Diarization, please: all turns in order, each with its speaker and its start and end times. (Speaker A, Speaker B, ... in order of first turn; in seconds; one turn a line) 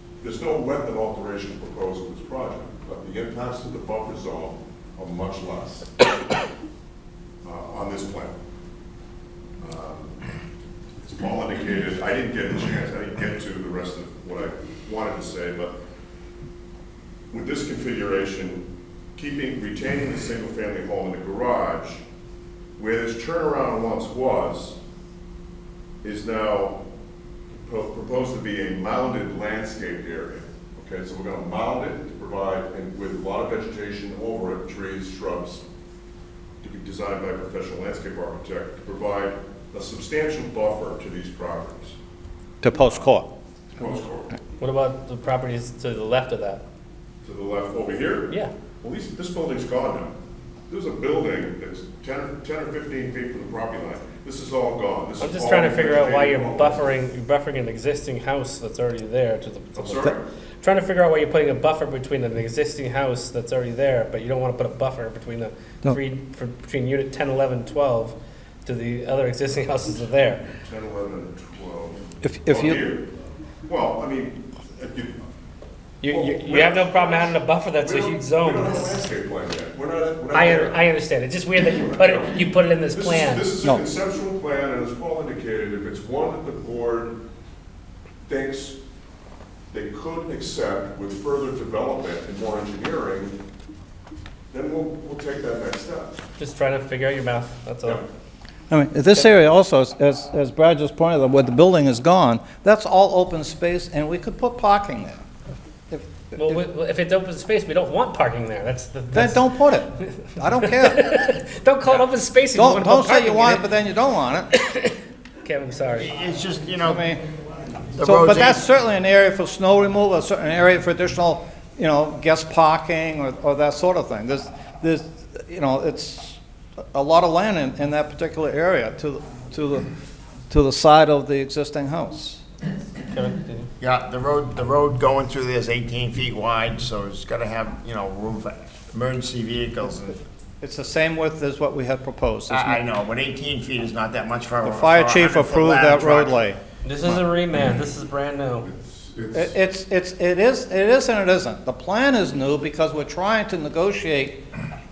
Speaker A: 0.2-5.9
Speaker A: 7.4-8.4
Speaker A: 9.6-10.2
Speaker A: 11.0-15.8
Speaker A: 17.3-22.0
Speaker A: 22.8-24.8
Speaker A: 26.0-26.8
Speaker A: 27.5-35.6
Speaker A: 36.6-42.0
Speaker B: 42.6-43.3
Speaker A: 43.8-44.3
Speaker C: 44.6-46.6
Speaker A: 47.2-50.1
Speaker A: 50.7-56.9
Speaker C: 55.2-70.5
Speaker A: 59.8-60.3
Speaker A: 70.6-73.1
Speaker B: 72.2-72.8
Speaker A: 73.7-75.2
Speaker C: 76.0-79.0
Speaker A: 76.0-80.8
Speaker C: 80.3-83.5
Speaker A: 81.7-87.2
Speaker A: 88.3-88.8
Speaker A: 89.7-93.4
Speaker A: 94.5-96.2
Speaker C: 96.4-98.0
Speaker B: 98.7-105.2
Speaker B: 105.9-106.6
Speaker C: 106.3-109.5
Speaker B: 109.1-111.1
Speaker C: 110.6-113.7
Speaker B: 112.5-114.5
Speaker C: 114.5-116.1
Speaker D: 116.0-117.0
Speaker B: 116.8-117.2
Speaker D: 117.9-118.6
Speaker B: 118.0-126.4
Speaker B: 126.9-129.9
Speaker B: 130.5-132.4
Speaker C: 133.0-133.7
Speaker D: 133.8-140.2
Speaker B: 140.6-142.8
Speaker D: 142.5-146.4
Speaker B: 144.6-146.6
Speaker C: 146.8-148.7
Speaker B: 149.3-154.4